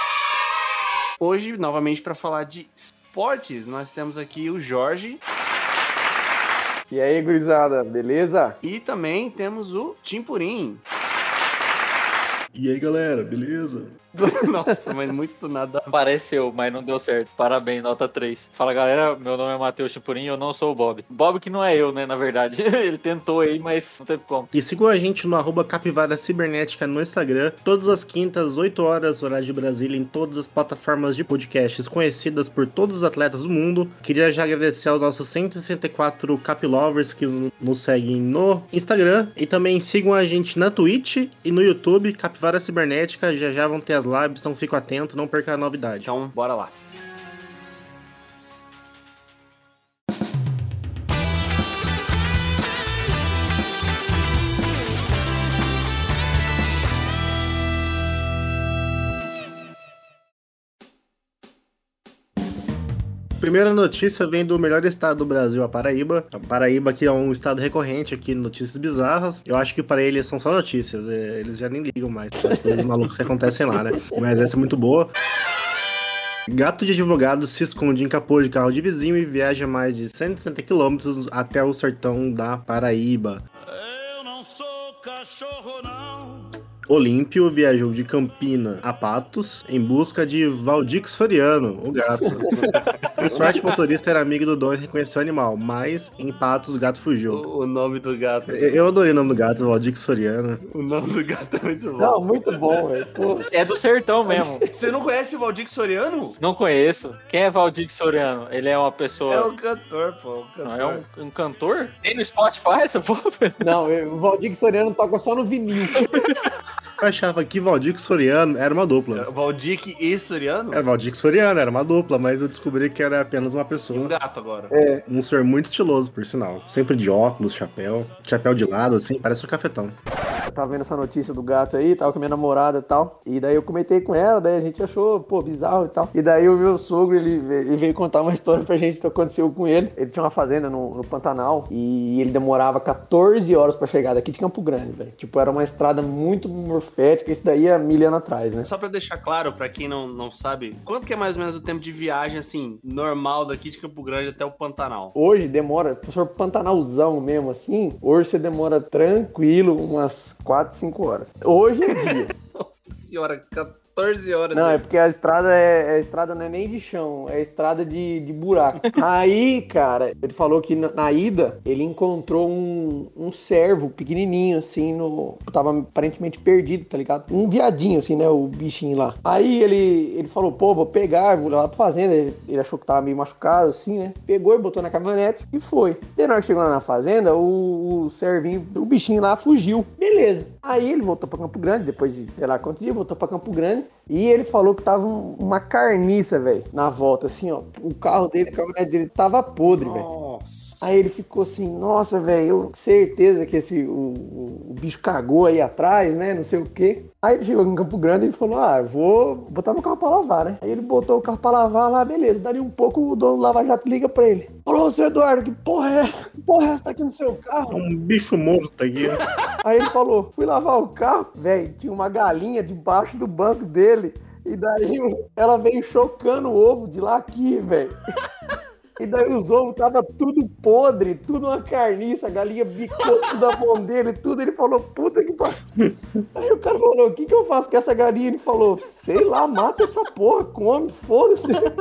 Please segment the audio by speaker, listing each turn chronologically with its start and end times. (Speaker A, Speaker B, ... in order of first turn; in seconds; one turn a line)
Speaker A: 1.2-5.2
Speaker B: 6.9-8.6
Speaker A: 8.6-10.8
Speaker C: 12.5-13.9
Speaker A: 14.2-15.9
Speaker B: 14.2-14.9
Speaker D: 15.9-24.5
Speaker C: 24.5-46.1
Speaker A: 46.0-46.7
Speaker C: 63.4-75.1
Speaker C: 76.5-83.4
Speaker E: 83.7-86.5
Speaker C: 86.9-97.5
Speaker B: 92.3-92.7
Speaker A: 92.5-93.6
Speaker A: 97.3-98.7
Speaker C: 98.5-100.6
Speaker A: 100.7-102.3
Speaker B: 102.0-103.5
Speaker D: 103.5-104.6
Speaker A: 104.7-106.4
Speaker D: 106.4-109.5
Speaker A: 109.3-111.0
Speaker D: 110.6-113.6
Speaker B: 113.6-116.1
Speaker C: 117.0-119.3
Speaker A: 119.1-120.8
Speaker C: 120.7-124.1
Speaker A: 123.9-124.7
Speaker B: 124.7-125.0
Speaker C: 125.1-130.0
Speaker B: 130.5-148.7
Speaker A: 148.6-155.2
Speaker B: 155.2-162.3
Speaker A: 161.9-164.8
Speaker B: 164.5-200.1
Speaker A: 199.7-200.9
Speaker B: 200.8-217.8
Speaker C: 217.7-219.2
Speaker B: 219.6-228.0
Speaker B: 229.0-235.6
Speaker B: 236.3-241.7